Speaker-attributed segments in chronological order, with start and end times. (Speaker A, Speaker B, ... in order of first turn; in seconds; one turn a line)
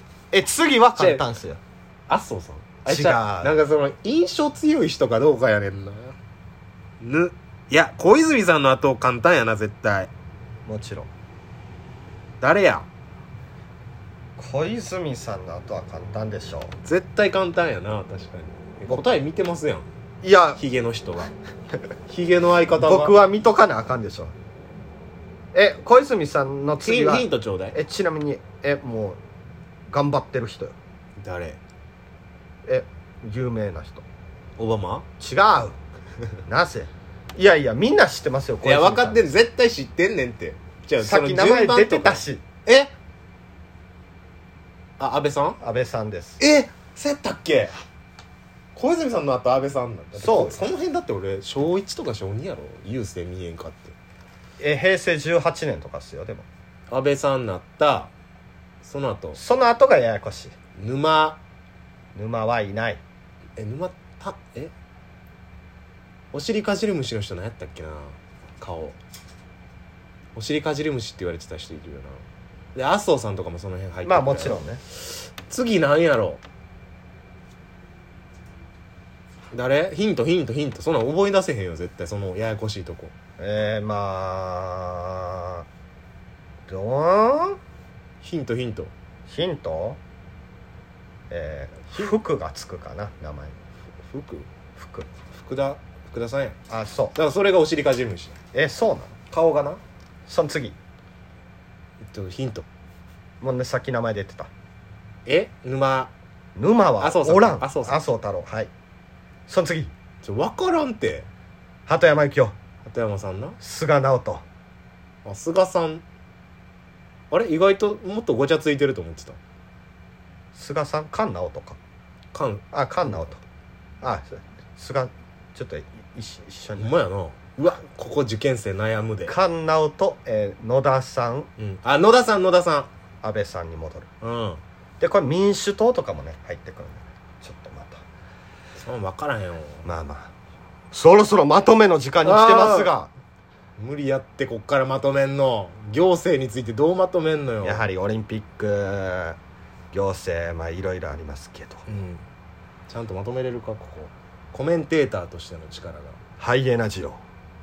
Speaker A: 0.3-1.6
Speaker B: 0.9-1.2
Speaker B: 2.1-6.2
Speaker A: 2.9-3.5
Speaker B: 7.0-10.1
Speaker A: 10.7-11.1
Speaker B: 12.4-12.9
Speaker A: 14.4-16.8
Speaker B: 16.8-19.9
Speaker A: 20.2-20.6
Speaker B: 20.6-21.3
Speaker B: 22.1-23.1
Speaker A: 22.8-24.3
Speaker A: 25.5-29.2
Speaker B: 26.8-27.8
Speaker A: 29.9-30.8
Speaker B: 31.2-31.6
Speaker A: 32.7-34.0
Speaker B: 34.6-35.1
Speaker A: 35.2-35.8
Speaker A: 36.5-39.3
Speaker B: 38.6-42.9
Speaker A: 41.0-42.4
Speaker B: 45.0-45.6
Speaker A: 45.6-46.4
Speaker B: 46.4-47.7
Speaker B: 48.8-54.0
Speaker A: 50.2-50.6
Speaker A: 54.6-56.5
Speaker B: 56.9-58.1
Speaker B: 58.8-59.4
Speaker A: 59.4-60.5
Speaker B: 60.8-61.4
Speaker A: 62.1-63.0
Speaker B: 63.6-64.7
Speaker B: 66.3-69.0
Speaker B: 70.3-72.2
Speaker B: 72.8-76.4
Speaker A: 74.0-74.8
Speaker B: 79.5-83.1
Speaker A: 83.4-85.7
Speaker A: 86.7-87.6
Speaker B: 88.2-88.9
Speaker A: 89.3-90.0
Speaker A: 91.3-93.6
Speaker B: 94.0-94.5
Speaker A: 94.8-95.1
Speaker B: 95.3-96.6
Speaker A: 96.7-97.2
Speaker B: 97.2-98.3
Speaker A: 98.5-99.2
Speaker B: 99.3-99.8
Speaker A: 100.3-100.8
Speaker B: 102.0-102.7
Speaker A: 103.4-104.5
Speaker B: 105.3-106.1
Speaker A: 106.5-108.7
Speaker B: 107.0-108.0
Speaker A: 109.5-109.9
Speaker B: 110.2-111.3
Speaker A: 111.9-112.5
Speaker B: 112.9-113.6
Speaker A: 113.6-114.4
Speaker B: 115.2-116.0
Speaker B: 117.3-119.4
Speaker A: 120.5-121.8
Speaker B: 122.3-122.6
Speaker A: 122.7-123.4
Speaker A: 124.0-127.0
Speaker B: 126.8-129.3
Speaker A: 129.3-131.5
Speaker B: 131.6-132.9
Speaker A: 133.2-134.1
Speaker B: 134.2-134.6
Speaker A: 135.0-138.0
Speaker B: 138.8-139.9
Speaker A: 139.8-140.3
Speaker A: 140.9-143.1
Speaker B: 142.2-142.9
Speaker B: 143.8-147.8
Speaker A: 147.6-149.4
Speaker A: 149.9-151.9
Speaker B: 151.9-152.2
Speaker B: 152.9-156.2
Speaker A: 156.4-157.2